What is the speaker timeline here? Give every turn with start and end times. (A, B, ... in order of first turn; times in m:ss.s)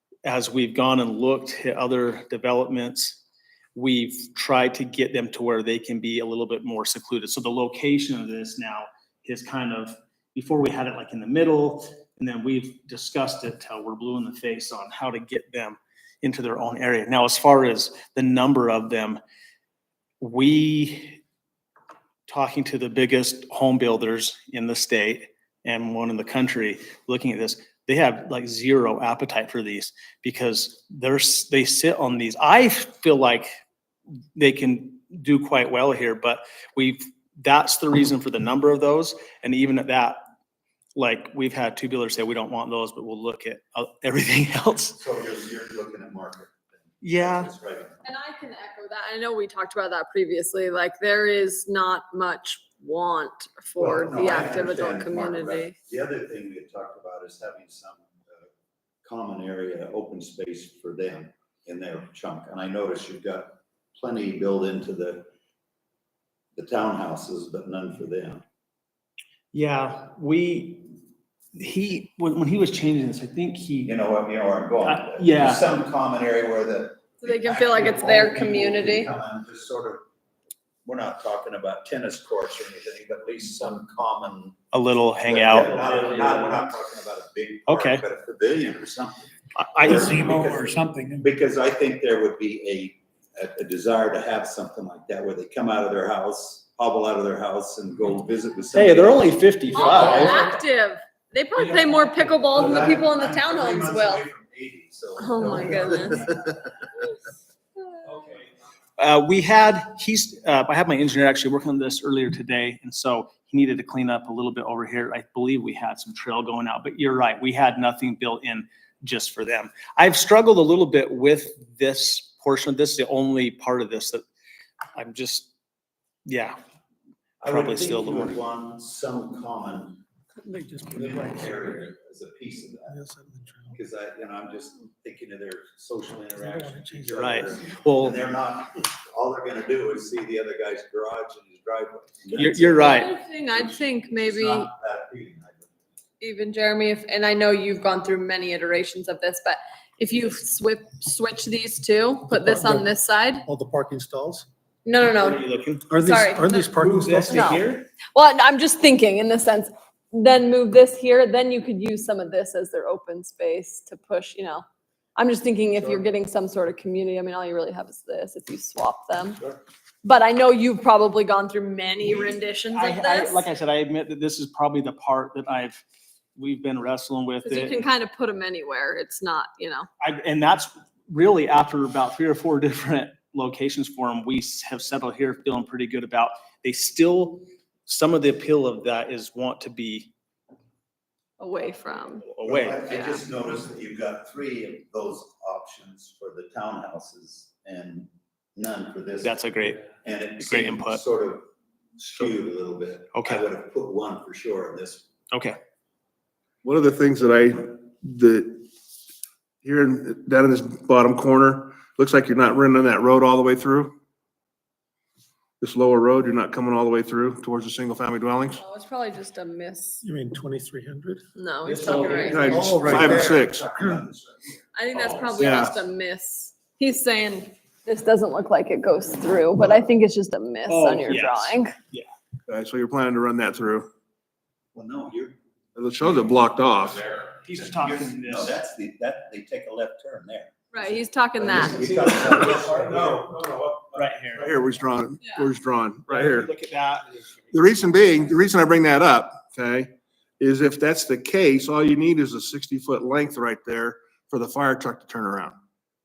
0:00.2-0:03.2 A
0:03.8-0:19.2 A
0:20.2-0:21.2 A
0:22.3-0:33.5 A
0:34.4-0:40.2 A
0:41.0-0:45.0 A
0:45.0-0:48.1 B
0:47.0-0:47.5 A
0:48.0-0:55.8 C
0:53.8-0:58.5 B
0:59.0-1:05.3 B
1:06.6-1:08.4 B
1:09.5-1:10.9 A
1:11.5-1:14.0 A
1:13.8-1:20.1 B
1:14.8-1:15.7 A
1:17.2-1:19.1 C
1:20.8-1:24.6 B
1:24.7-1:26.5 A
1:25.2-1:40.4 B
1:27.7-1:28.0 A
1:29.6-1:30.6 A
1:29.9-1:31.2 D
1:38.7-1:40.5 A
1:39.7-1:44.3 C
1:42.5-1:46.7 B
1:45.2-1:46.4 C
1:49.0-2:04.2 A
2:05.0-2:05.5 A
2:06.3-2:06.6 A
2:07.4-2:10.0 B
2:07.5-2:08.4 A
2:10.4-2:11.8 D
2:10.9-2:13.0 B
2:12.9-2:13.8 D
2:13.7-2:25.7 B
2:16.4-2:17.3 D
2:17.1-2:18.2 A
2:22.3-2:23.1 A
2:22.8-2:24.7 C
2:26.2-2:33.5 C
2:32.3-2:32.9 D
2:33.5-2:34.5 D
2:34.8-2:36.8 C
2:35.1-2:35.9 A
2:35.9-2:37.5 D
2:36.7-2:37.9 A
2:37.3-2:44.6 C
2:45.2-2:49.4 C
2:45.8-2:46.0 B
2:50.0-2:53.5 C
2:52.7-2:55.8 A
2:56.4-2:57.8 A
2:57.4-2:59.9 C
3:00.0-3:10.1 A
3:11.4-3:12.3 C
3:12.2-3:12.8 A
3:12.4-3:21.5 B
3:12.9-3:13.2 C
3:19.2-3:19.8 A
3:20.4-3:21.0 A
3:22.0-3:25.1 B
3:23.1-3:23.4 A
3:25.3-3:25.6 A
3:26.6-3:28.7 E
3:29.6-3:33.9 E
3:35.6-3:38.6 E
3:38.5-3:40.0 C
3:40.0-3:41.2 D
3:41.4-3:42.7 C
3:41.7-3:42.4 A
3:42.0-3:44.6 B
3:42.1-3:43.6 E
3:42.4-3:44.0 D
3:44.8-3:51.7 C
3:45.4-3:45.8 E
3:50.7-3:52.1 A
3:52.5-3:53.9 E
3:54.7-3:55.4 B
3:55.8-3:57.0 E
3:57.4-3:58.6 A
3:57.5-4:03.4 B
4:00.7-4:02.4 C
4:02.4-4:06.5 E
4:03.9-4:04.5 A
4:05.2-4:05.5 C
4:06.1-4:07.8 A
4:07.5-4:15.6 E